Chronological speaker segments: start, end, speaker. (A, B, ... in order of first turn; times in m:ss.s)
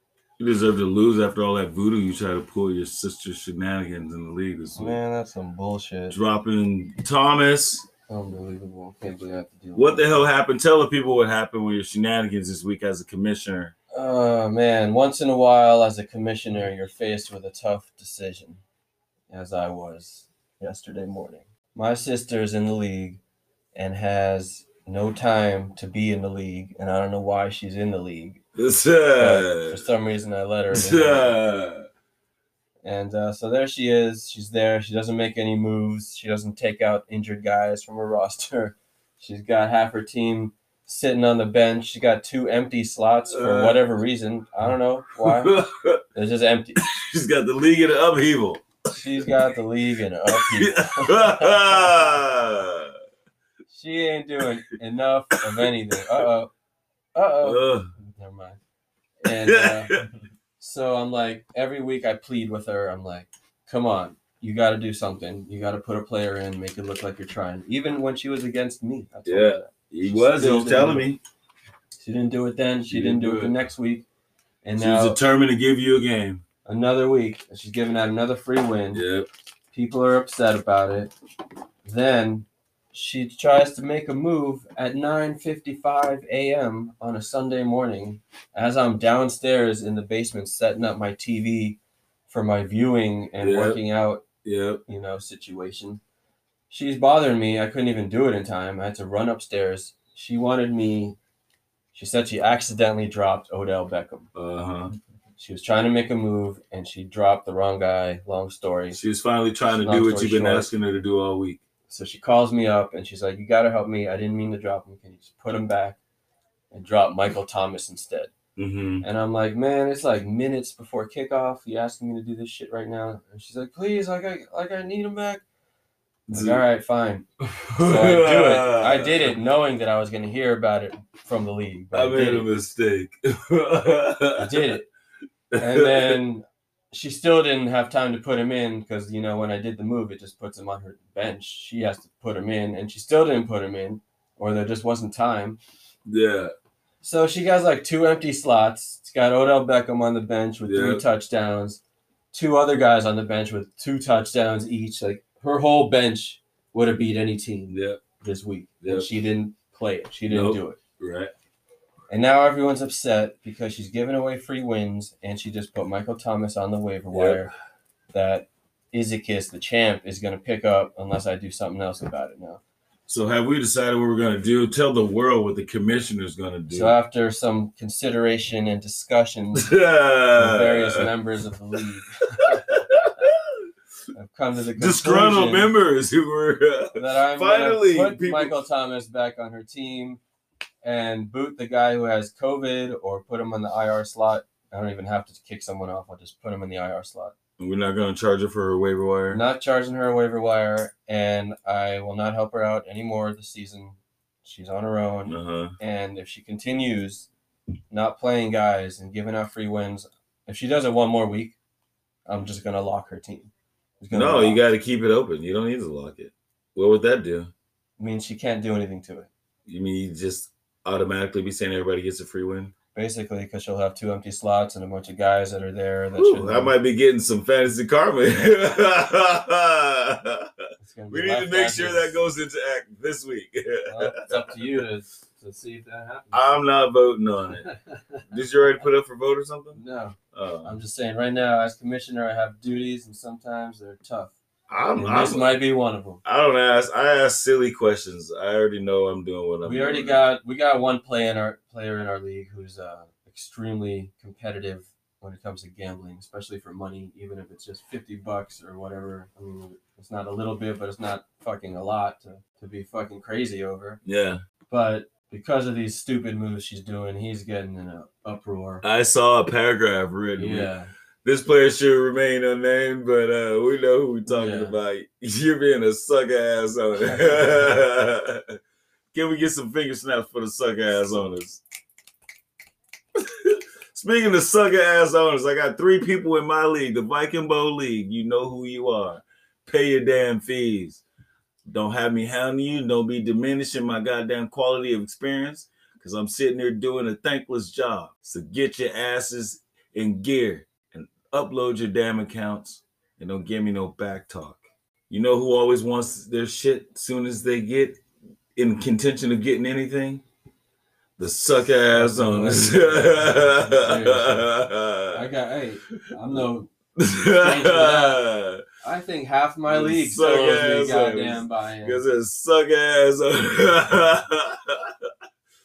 0:00.4-0:05.0 A
0:04.8-0:06.2 B
0:06.1-0:07.9 A
0:08.1-0:10.3 B
0:09.8-0:13.7 A
0:13.9-0:18.6 B
0:19.3-0:23.2 B
0:23.7-0:28.4 B
0:28.6-0:29.9 A
0:29.2-0:31.3 B
0:30.7-0:31.9 A
0:32.8-0:45.6 B
0:43.3-0:43.9 A
0:45.2-0:46.0 A
0:46.1-0:46.8 B
0:46.8-0:48.7 A
0:48.9-0:52.0 B
0:50.3-0:53.0 A
0:53.7-0:56.5 B
0:55.4-0:56.3 A
0:57.2-0:58.6 B
0:57.4-0:57.9 A
0:59.2-0:59.9 B
0:59.3-1:00.1 A
1:00.6-1:11.1 B
1:09.3-1:11.2 A
1:12.0-1:14.1 B
1:12.8-1:13.6 A
1:14.6-1:15.2 B
1:14.8-1:16.4 A
1:16.6-1:19.0 B
1:18.9-1:19.3 A
1:19.7-1:21.1 B
1:21.8-1:34.2 B
1:33.4-1:33.8 A
1:34.4-1:34.8 A
1:34.9-1:36.0 B
1:36.7-1:41.2 B
1:41.9-1:44.3 B
1:44.4-1:44.9 A
1:45.4-1:49.0 B
1:48.9-1:51.6 A
1:49.7-1:50.7 B
1:51.9-1:56.0 B
1:56.7-1:58.3 B
1:58.6-1:59.0 A
1:59.0-2:05.4 B
2:06.3-2:06.6 A
2:06.3-2:07.3 B
2:07.4-2:09.3 A
2:07.8-2:12.5 B
2:11.9-2:14.7 A
2:14.4-2:14.9 B
2:15.5-2:16.2 A
2:15.6-2:25.6 B
2:26.1-2:26.6 A
2:27.0-2:31.8 B
2:30.7-2:31.0 A
2:32.3-2:40.8 B
2:37.7-2:38.0 A
2:38.8-2:39.1 A
2:40.3-2:41.3 A
2:42.1-2:47.5 B
2:47.1-2:47.5 A
2:48.1-2:52.6 B
2:53.1-2:57.0 A
2:56.7-2:59.7 B
2:59.6-3:01.1 A
3:00.4-3:02.7 B
3:02.4-3:03.7 A
3:04.1-3:05.7 B
3:04.8-3:08.6 A
3:07.0-3:10.2 B
3:10.8-3:17.4 B
3:17.6-3:19.4 A
3:19.3-3:27.3 B
3:25.3-3:25.8 A
3:27.9-3:31.6 B
3:32.3-3:34.6 B
3:34.1-3:37.5 A
3:38.0-3:39.3 B
3:39.7-3:42.7 A
3:43.0-3:46.8 B
3:46.2-3:50.5 A
3:50.8-3:52.2 B
3:51.1-3:54.6 A
3:53.9-3:56.5 B
3:56.3-3:57.7 A
3:57.7-3:58.2 B
3:58.3-3:59.8 A
3:59.7-4:04.4 B
4:00.3-4:00.8 A
4:04.7-4:05.6 A
4:05.0-4:06.2 B
4:06.2-4:10.2 A
4:09.6-4:24.0 B
4:24.0-4:24.4 A
4:24.7-4:28.8 B
4:28.8-4:30.7 A
4:30.4-4:30.9 B
4:31.2-4:38.6 A
4:34.3-4:34.8 B
4:39.1-4:41.6 A
4:43.2-4:51.0 A
4:51.6-5:08.0 A
5:08.6-5:10.2 A
5:11.2-5:15.2 A
5:11.9-5:14.5 B
5:15.1-5:16.7 B
5:17.0-5:18.6 A
5:17.4-5:18.2 B
5:18.8-5:22.0 B
5:19.7-5:25.1 A